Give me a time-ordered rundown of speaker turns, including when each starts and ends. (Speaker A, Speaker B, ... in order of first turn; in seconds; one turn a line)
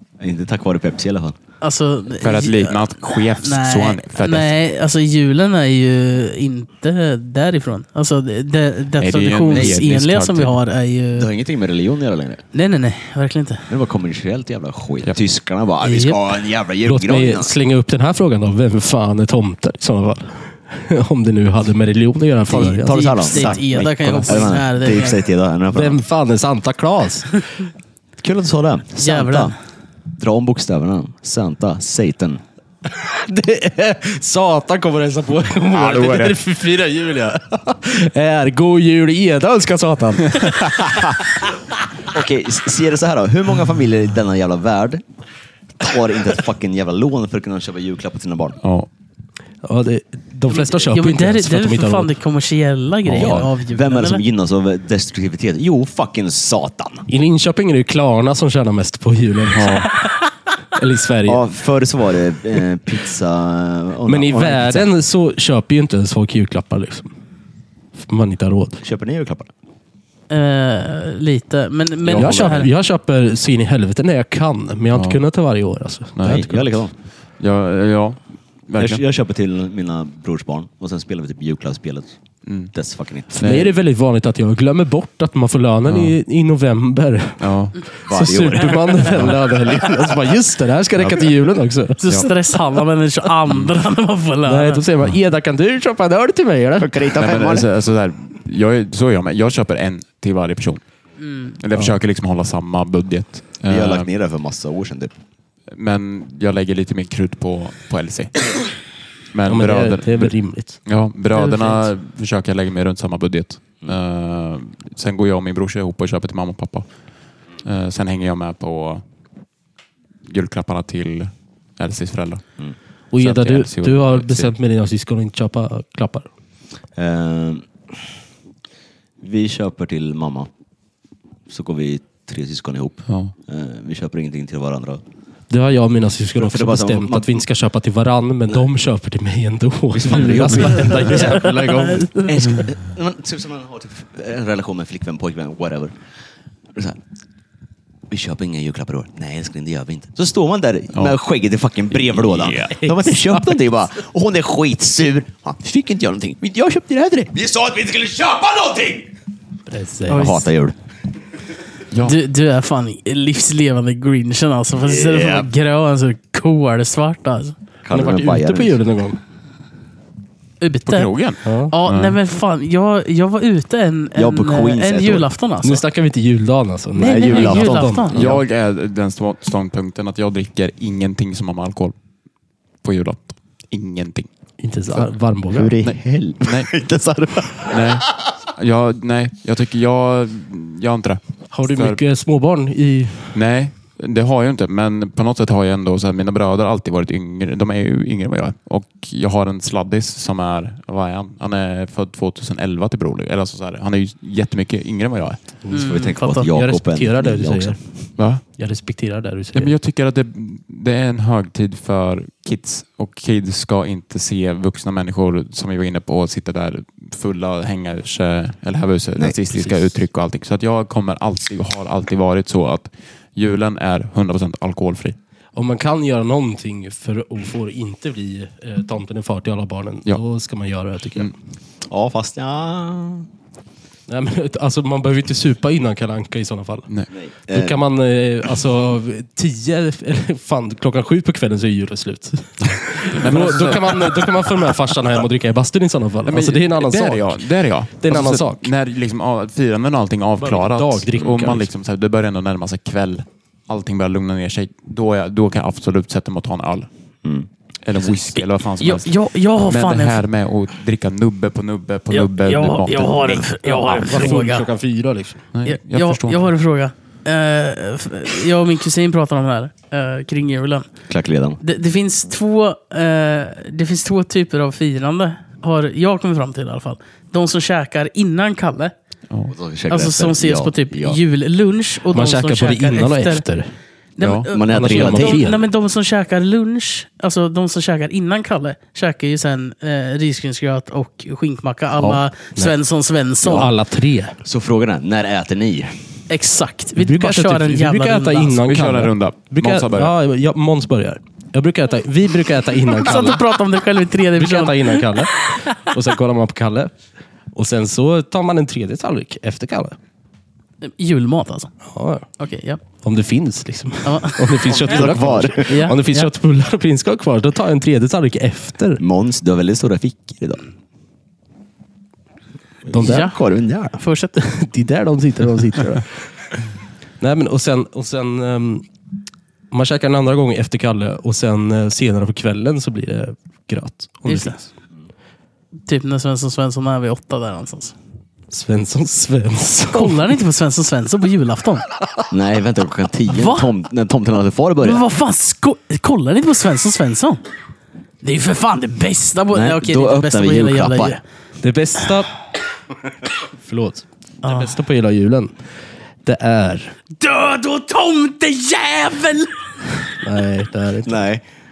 Speaker A: 0.2-1.4
Speaker B: 1.6-11.3
Speaker C: 2.2-4.5
Speaker C: 9.0-10.6
Speaker A: 9.5-9.8
Speaker A: 11.1-12.4
Speaker B: 12.5-13.7
Speaker A: 13.7-17.5
Speaker B: 15.8-16.2
Speaker D: 16.8-24.5
Speaker A: 22.5-26.0
Speaker B: 22.6-25.2
Speaker D: 25.7-27.4
Speaker A: 28.2-29.5
Speaker B: 29.0-29.5
Speaker A: 30.2-32.4
Speaker D: 32.9-41.1
Speaker C: 35.7-36.4
Speaker A: 42.1-45.0
Speaker A: 45.8-48.6
Speaker C: 48.6-48.9
Speaker D: 49.6-52.1
Speaker B: 50.5-54.2
Speaker C: 53.1-53.4
Speaker A: 53.1-57.1
Speaker D: 57.1-59.9
Speaker C: 59.5-59.9
Speaker D: 60.7-61.4
Speaker A: 61.2-64.9
Speaker D: 64.1-67.1
Speaker D: 68.0-68.8
Speaker A: 68.8-69.5
Speaker B: 70.3-72.7
Speaker C: 72.0-72.6
Speaker D: 72.1-76.2
Speaker C: 74.9-75.2
Speaker C: 76.2-76.8
Speaker A: 76.2-76.9
Speaker C: 77.4-79.0
Speaker A: 78.8-82.1
Speaker C: 82.4-82.7
Speaker A: 82.7-83.5
Speaker D: 83.3-87.4
Speaker C: 83.3-83.7
Speaker C: 85.8-86.2
Speaker C: 87.4-87.8
Speaker A: 88.0-89.3
Speaker D: 88.1-92.3
Speaker C: 91.0-91.3
Speaker B: 92.0-94.8
Speaker D: 94.5-97.0
Speaker A: 96.8-97.7
Speaker C: 97.2-100.8
Speaker B: 101.2-101.6
Speaker C: 101.6-104.1
Speaker A: 103.7-105.1
Speaker C: 105.7-108.5
Speaker C: 109.3-116.9
Speaker D: 109.5-110.8
Speaker B: 111.3-111.9
Speaker C: 117.6-119.0
Speaker C: 120.2-122.4
Speaker D: 123.1-126.3
Speaker C: 123.2-124.5
Speaker A: 127.0-127.7
Speaker A: 129.2-130.5
Speaker A: 131.5-135.0
Speaker C: 133.1-133.3
Speaker D: 135.5-142.3
Speaker A: 136.3-137.4
Speaker A: 139.9-145.9
Speaker B: 141.2-142.2
Speaker A: 148.1-159.1
Speaker C: 152.1-152.9
Speaker D: 159.7-160.3
Speaker B: 160.1-160.4
Speaker A: 160.1-160.8
Speaker C: 161.9-162.2
Speaker B: 162.0-167.5
Speaker A: 164.8-165.5
Speaker A: 167.8-168.8
Speaker D: 167.9-169.2
Speaker B: 170.6-171.1
Speaker C: 170.8-172.2
Speaker D: 171.4-171.7
Speaker B: 171.7-175.8
Speaker A: 174.1-175.3
Speaker D: 175.6-178.4
Speaker B: 177.0-178.3
Speaker A: 177.0-178.0
Speaker C: 178.1-181.9
Speaker C: 182.8-184.3
Speaker D: 184.6-185.7
Speaker A: 185.5-188.0
Speaker C: 185.8-186.7
Speaker C: 187.7-192.0
Speaker D: 191.5-193.3
Speaker C: 193.3-205.5
Speaker D: 205.6-207.8
Speaker A: 205.7-207.8
Speaker B: 205.7-206.4
Speaker C: 208.2-208.4
Speaker D: 208.4-209.7
Speaker C: 209.5-225.2
Speaker D: 219.5-219.8
Speaker D: 225.5-231.3
Speaker A: 231.9-233.3
Speaker D: 234.1-236.9
Speaker A: 237.1-237.8
Speaker D: 237.5-247.4
Speaker C: 243.1-244.4
Speaker C: 246.2-256.9
Speaker D: 248.0-248.7
Speaker D: 250.4-251.7
Speaker C: 257.8-263.5
Speaker B: 258.8-260.2
Speaker B: 262.1-264.7
Speaker D: 263.6-265.4
Speaker C: 265.5-266.5
Speaker B: 265.6-270.9
Speaker A: 271.1-271.6
Speaker B: 271.6-278.9
Speaker A: 279.5-281.2
Speaker B: 279.9-283.4
Speaker D: 282.1-283.7
Speaker B: 284.2-293.7
Speaker C: 284.2-284.5
Speaker A: 284.5-285.6
Speaker D: 284.7-285.6
Speaker A: 293.4-293.7
Speaker D: 293.4-294.4
Speaker A: 294.4-296.0
Speaker B: 296.3-298.6
Speaker D: 297.0-303.4
Speaker C: 298.6-300.1
Speaker B: 302.9-305.2
Speaker D: 304.4-306.9
Speaker D: 307.5-310.0
Speaker B: 310.8-311.8
Speaker D: 311.9-312.2
Speaker B: 312.4-312.8
Speaker D: 313.0-319.0
Speaker B: 314.0-316.3
Speaker A: 314.6-315.8
Speaker A: 319.0-320.6
Speaker A: 322.8-324.0
Speaker D: 322.9-323.3
Speaker B: 323.0-323.4
Speaker B: 324.0-324.4
Speaker D: 324.4-326.1
Speaker D: 327.2-328.9
Speaker D: 329.7-334.7
Speaker B: 334.2-334.6
Speaker B: 335.9-337.9
Speaker D: 338.5-340.3
Speaker B: 339.9-341.9
Speaker A: 342.3-345.0
Speaker B: 343.3-343.7
Speaker B: 344.8-347.4
Speaker B: 348.2-351.2
Speaker A: 349.5-351.2
Speaker D: 351.6-352.3
Speaker D: 353.6-355.5
Speaker B: 354.4-354.8
Speaker D: 356.2-356.9
Speaker B: 357.1-359.7
Speaker D: 360.2-361.2
Speaker A: 361.0-361.4